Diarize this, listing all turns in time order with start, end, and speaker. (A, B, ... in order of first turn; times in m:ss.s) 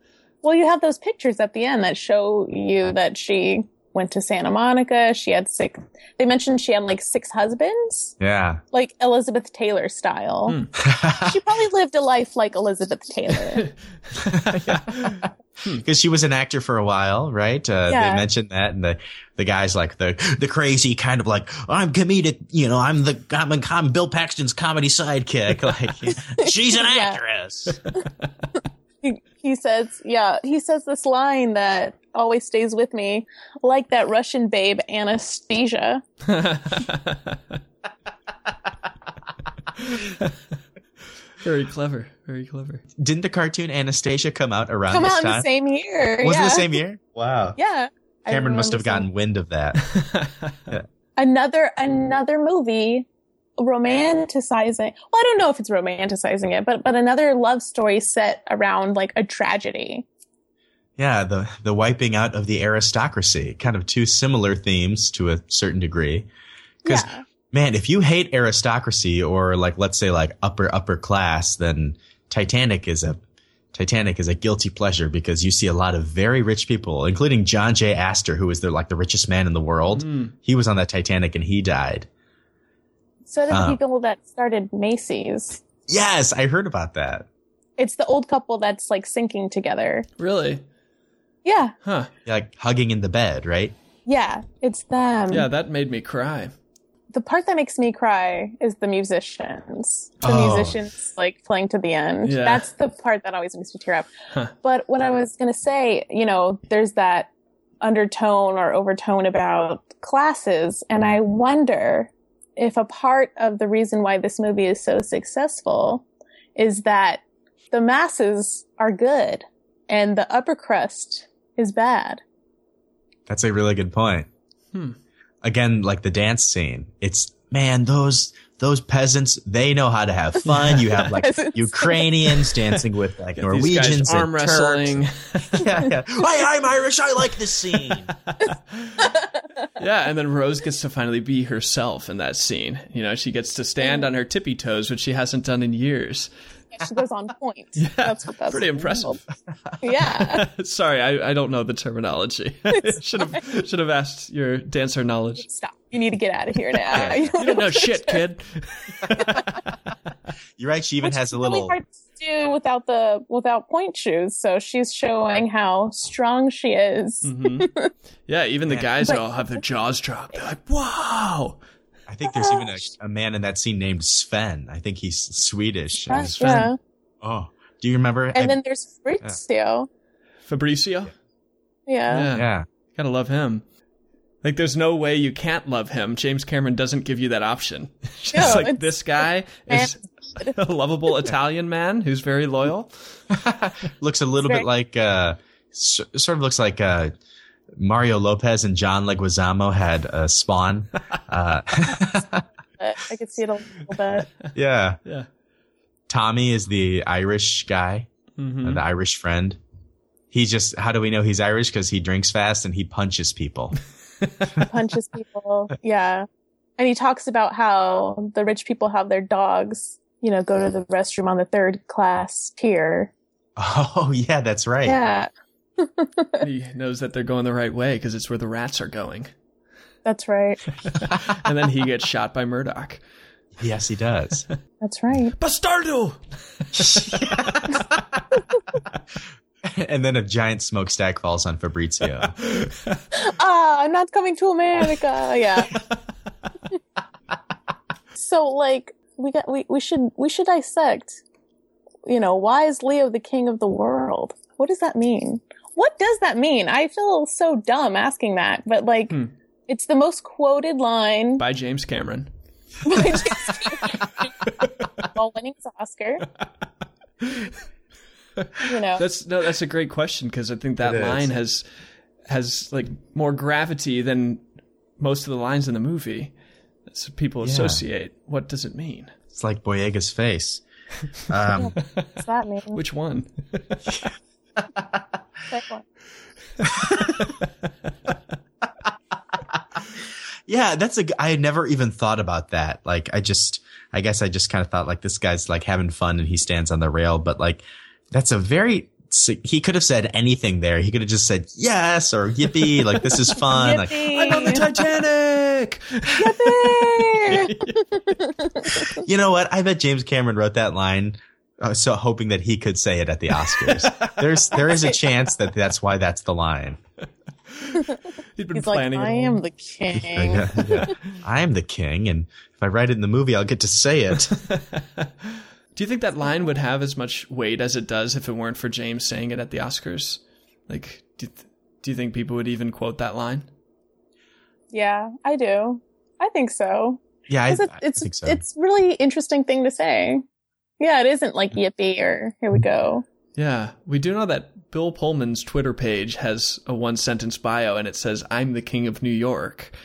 0:00.4-0:08.1 A
0:08.2-0:08.6 B
0:08.7-0:10.6 A
0:10.5-0:10.7 C
0:10.8-0:11.4 B
0:11.1-0:13.7 A
0:13.5-0:15.8 C
0:14.3-0:27.8 B
0:17.9-0:18.2 A
0:26.4-0:27.2 A
0:29.0-0:36.0 A
0:36.2-0:37.5 C
0:39.8-0:40.3 C
0:41.4-0:42.8 C
0:43.0-0:45.4 B
0:44.9-0:46.8 A
0:46.2-0:47.6 B
0:47.6-0:49.1 A
0:48.3-0:49.8 B
0:49.8-0:50.6 C
0:51.2-0:53.0 A
0:53.6-1:00.0 A
1:01.0-1:06.3 B
1:06.8-1:07.2 A
1:06.8-1:13.2 B
1:13.7-1:22.1 B
1:19.9-1:20.3 C
1:23.3-1:25.6 A
1:23.5-1:23.8 B
1:25.9-1:27.2 B
1:27.8-1:30.1 A
1:30.2-1:30.6 C
1:31.4-1:31.7 A
1:31.8-1:32.1 C
1:32.2-1:33.7 B
1:34.0-1:35.5 A
1:35.3-1:36.5 C
1:37.1-1:44.1 A
1:40.2-1:40.8 B
1:42.2-1:42.6 C
1:44.6-1:56.0 A
1:56.6-2:02.2 A
2:03.3-2:04.3 B
2:05.4-2:18.1 B
2:10.5-2:10.8 C
2:10.9-2:12.6 A
2:13.4-2:15.7 C
2:17.8-2:19.0 C
2:19.0-2:19.7 A
2:19.8-2:26.3 C
2:23.8-2:24.1 A
2:26.7-2:29.2 A
2:27.8-2:29.2 C
2:29.8-2:30.4 A
2:30.0-2:35.4 C
2:32.8-2:33.4 A
2:35.4-2:38.2 A
2:36.9-2:37.4 B
2:36.9-2:39.6 C
2:40.6-2:41.8 B
2:41.0-2:47.9 A
2:47.2-2:47.7 C
2:48.3-2:51.6 C
2:49.0-2:49.6 A
2:52.1-2:56.7 B
2:52.2-2:52.8 A
2:56.1-2:56.8 A
2:56.4-2:56.7 C
2:57.2-2:58.6 B
2:58.3-2:59.9 A
3:00.5-3:01.1 C
3:01.9-3:02.3 A
3:02.1-3:03.6 C
3:02.3-3:02.6 B
3:04.4-3:13.2 C
3:08.3-3:10.6 A
3:13.3-3:17.1 B
3:17.8-3:22.4 B
3:22.8-3:24.3 A
3:24.5-3:25.0 B
3:26.1-3:28.1 B
3:28.4-3:28.8 C
3:28.6-3:29.6 B
3:30.3-3:33.8 B
3:34.2-3:34.5 C
3:34.6-3:36.2 A
3:36.8-3:43.1 A
3:43.6-3:45.0 B
3:44.8-3:46.4 A
3:46.4-3:49.3 C
3:50.0-3:50.7 A
3:51.0-3:53.0 C
3:53.6-3:54.4 B
3:54.8-3:55.3 A
3:55.4-3:57.6 C
3:56.8-3:57.8 B
3:59.6-4:02.3 B
4:02.4-4:03.0 C
4:03.1-4:05.8 A
4:08.1-4:11.2 A
4:12.0-4:19.2 A
4:19.7-4:21.4 A
4:21.4-4:22.3 C
4:22.8-4:24.5 A
4:22.9-4:23.8 C
4:24.5-4:25.0 C
4:25.0-4:26.3 A
4:27.2-4:27.6 C
4:28.4-4:31.6 C
4:28.6-4:29.0 A
4:30.8-4:31.3 B
4:32.3-4:34.4 C
4:35.0-4:36.3 C
4:36.9-4:39.1 C
4:37.4-4:37.8 B
4:39.3-4:40.6 B
4:41.3-4:41.7 B
4:41.5-4:42.8 A
4:42.7-4:44.0 C
4:44.8-4:45.0 B
4:45.5-4:45.8 A
4:46.7-4:47.2 B
4:47.2-4:47.4 C
4:50.5-5:04.0 B
5:03.5-5:04.6 A
5:03.9-5:08.1 C
5:06.2-5:09.0 A
5:09.0-5:16.8 B
5:13.5-5:14.2 C
5:14.6-5:15.0 A
5:17.5-5:19.4 C
5:18.5-5:20.9 A
5:19.9-5:24.3 B
5:24.3-5:33.5 C
5:34.7-5:40.2 A
5:37.3-5:38.4 B
5:40.8-5:43.0 A
5:43.4-5:49.7 C